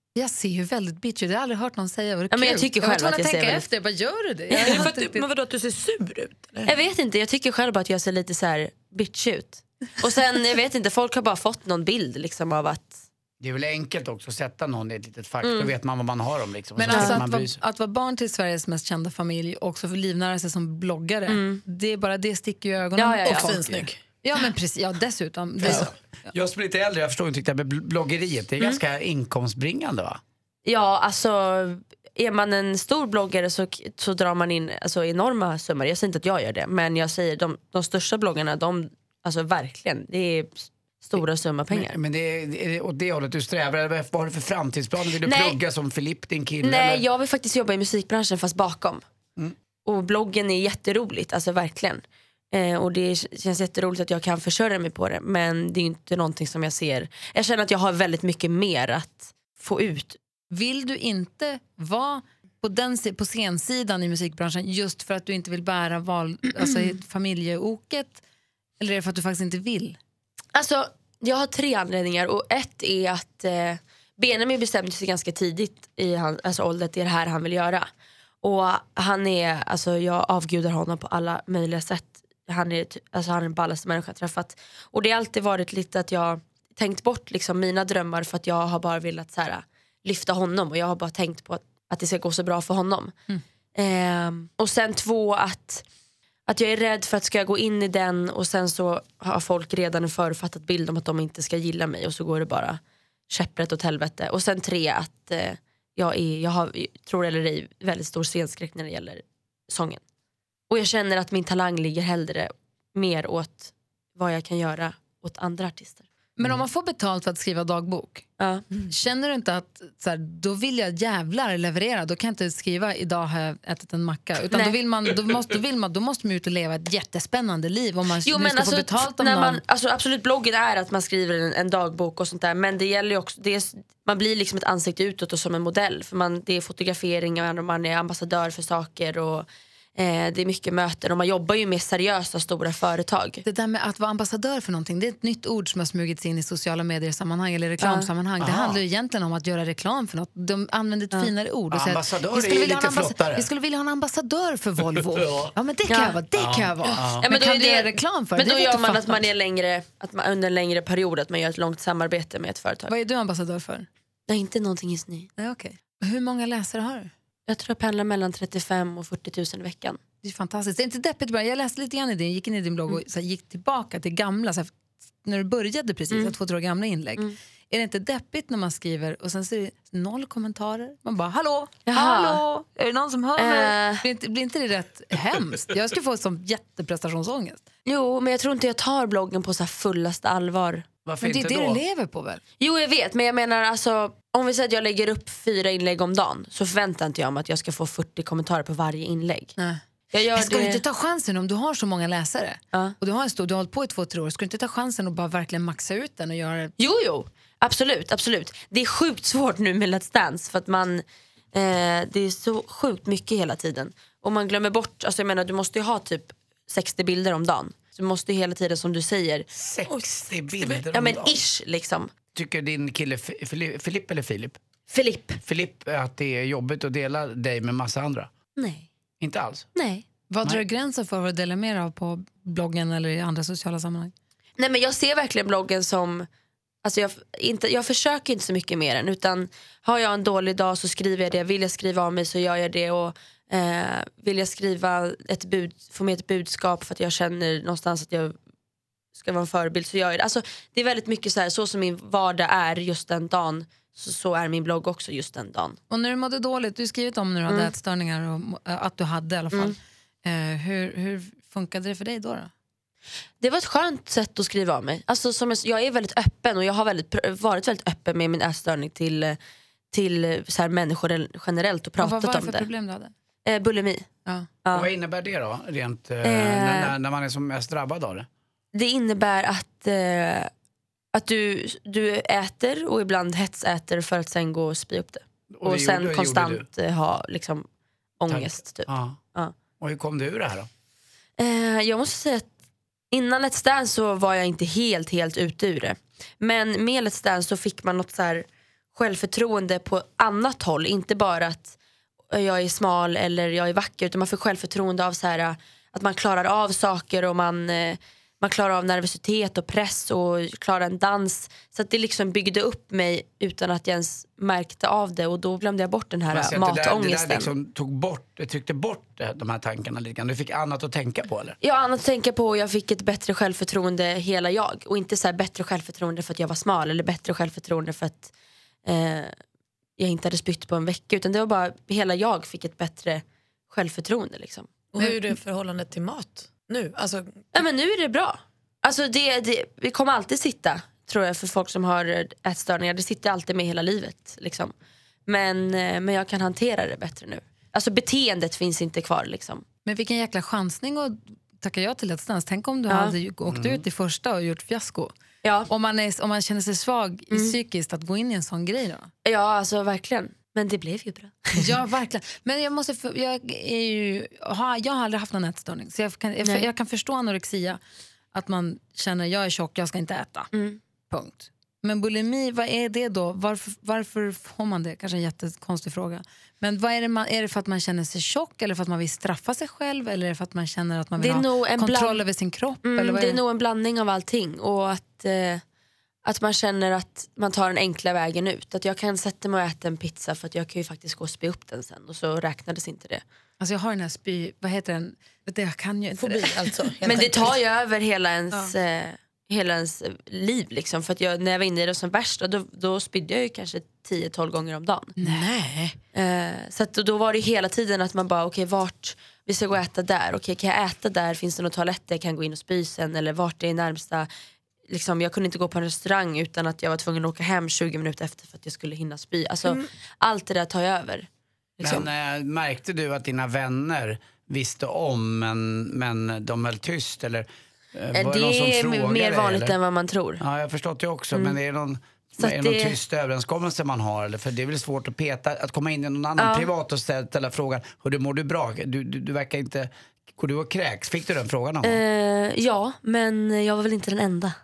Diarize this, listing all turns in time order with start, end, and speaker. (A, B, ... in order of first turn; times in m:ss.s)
0:00.2-0:05.3 A
0:02.3-0:03.6 B
0:04.5-0:04.9 B
0:04.6-0:06.7 C
0:06.6-0:13.0 B
0:13.4-0:17.6 D
0:15.4-0:15.7 B
0:16.8-0:26.3 A
0:16.9-0:17.2 B
0:21.3-0:21.6 B
0:23.0-0:23.6 B
0:23.2-0:24.0 C
0:25.6-0:30.2 D
0:30.6-0:42.0 B
0:41.7-0:47.0 D
0:45.2-0:45.6 B
0:46.6-0:49.0 B
0:49.8-1:00.2 B
1:00.5-1:08.2 A
1:06.6-1:06.9 B
1:08.8-1:10.0 A
1:10.5-1:17.9 B
1:18.4-1:33.1 B
1:33.7-1:35.8 B
1:36.5-1:50.0 B
1:50.7-1:56.0 B
1:56.4-1:58.2 A
1:58.4-1:58.8 B
1:58.9-2:09.6 A
2:04.5-2:04.8 B
2:08.2-2:23.4 B
2:23.4-2:39.2 A
2:27.8-2:28.1 B
2:28.4-2:28.8 D
2:31.7-2:33.5 D
2:34.9-2:35.5 D
2:35.9-2:36.2 B
2:36.3-2:37.3 D
2:37.0-2:42.9 B
2:42.9-2:43.9 A
2:44.3-2:45.3 B
2:45.4-2:47.1 A
2:47.5-2:50.0 B
2:50.2-3:07.6 A
3:01.9-3:02.4 B
3:03.4-3:04.0 B
3:07.8-3:10.8 B
3:11.0-3:11.8 D
3:11.2-3:12.4 A
3:12.6-3:19.5 B
3:20.1-3:20.8 B
3:20.3-3:26.7 A
3:26.8-3:39.5 B
3:39.5-3:41.4 D
3:39.9-3:40.8 C
3:40.9-3:42.1 B
3:42.3-3:44.6 D
3:44.9-3:45.4 B
3:45.4-3:48.3 D
3:48.6-3:48.9 B
3:49.2-3:49.7 D
3:49.7-3:50.0 B
3:50.3-3:54.1 A
3:54.6-3:56.3 B
3:56.8-4:08.3 B
4:09.2-4:15.8 B
4:15.9-4:22.5 A
4:23.4-4:29.4 B
4:29.9-4:32.7 B
4:32.0-4:33.1 A
4:33.4-4:34.1 B
4:34.6-4:34.9 B
4:34.7-4:38.3 D
4:36.2-4:36.9 B
4:38.7-4:40.5 B
4:41.1-4:47.7 B
4:45.5-4:46.6 D
4:48.2-4:49.5 B
4:48.3-4:49.2 D
4:49.8-4:50.7 D
4:51.4-4:52.5 B
4:53.1-5:01.7 B
5:02.3-5:17.5 B
5:16.3-5:21.6 D
5:21.6-5:28.3 B
5:28.8-5:29.3 B
5:30.0-5:34.7 B
5:34.9-5:37.4 C
5:37.5-5:44.7 B
5:45.3-5:49.6 B
5:49.8-5:55.1 A
5:52.9-5:53.1 B
5:53.5-5:53.8 D
5:55.4-5:55.7 B
5:55.7-5:59.1 A
5:59.2-6:01.7 B
6:01.6-6:07.8 A
6:08.3-6:10.5 A
6:10.5-6:10.8 B
6:11.1-6:23.4 A
6:21.2-6:22.2 B
6:22.8-6:25.6 B
6:26.2-6:33.2 B
6:33.6-6:36.8 A
6:36.2-6:37.6 C
6:37.0-6:45.2 B
6:45.2-6:46.0 A
6:46.1-6:54.3 B
6:54.9-7:01.3 B
7:01.8-7:02.1 B
7:01.8-7:09.7 D
7:08.1-7:10.4 B
7:10.4-7:22.0 D
7:11.3-7:11.6 B
7:12.4-7:13.0 B
7:16.4-7:16.7 B
7:21.8-7:24.5 B